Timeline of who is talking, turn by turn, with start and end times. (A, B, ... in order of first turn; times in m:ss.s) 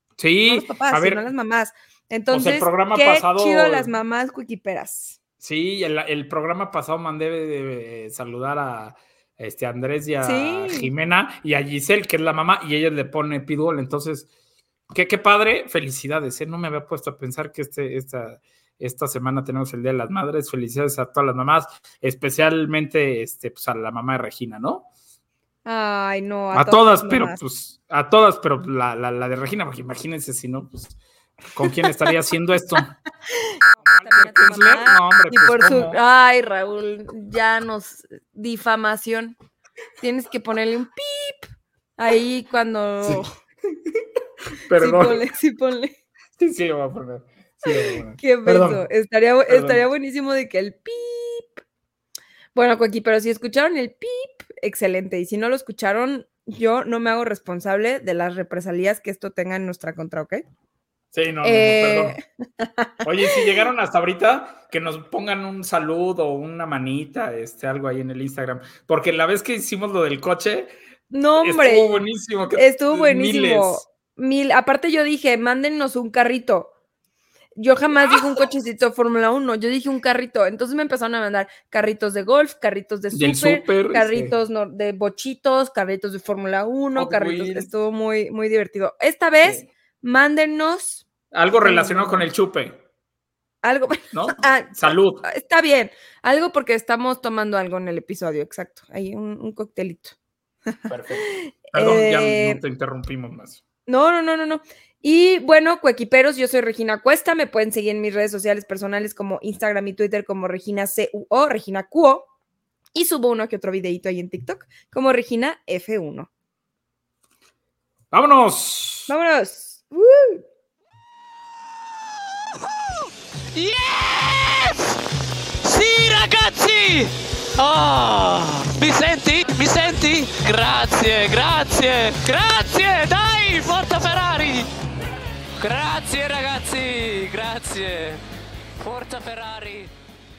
0:00.2-0:01.2 A
0:00.5-0:05.2 B
0:02.3-0:03.9 A
0:05.4-0:14.3 A
0:10.2-0:10.9 B
0:14.9-0:24.9 A
0:25.6-0:27.4 B
0:26.5-0:31.0 A
0:31.5-0:32.9 A
0:33.3-0:39.3 B
0:33.9-0:36.0 A
0:40.0-0:41.5 B
0:42.0-0:43.3 B
0:44.6-0:45.2 A
0:44.8-0:45.9 B
0:46.4-0:48.8 A
0:48.2-0:51.6 B
0:49.5-0:49.8 A
0:52.5-1:00.4 B
1:01.1-1:02.2 A
1:01.4-1:03.4 B
1:03.0-1:10.7 A
1:11.1-1:12.0 B
1:11.4-1:13.8 A
1:12.5-1:16.7 B
1:17.6-1:31.0 B
1:18.0-1:18.2 A
1:23.1-1:24.3 A
1:27.0-1:27.7 A
1:31.3-1:32.8 A
1:31.6-1:32.2 B
1:33.6-1:40.1 B
1:34.1-1:35.2 A
1:40.9-1:43.6 A
1:41.2-1:42.6 B
1:43.9-1:52.3 B
1:52.9-1:56.3 B
1:58.1-1:59.1 A
1:59.1-2:00.4 B
2:03.5-2:05.0 C
2:05.6-2:14.7 C
2:15.6-2:18.2 C
2:18.8-2:19.9 C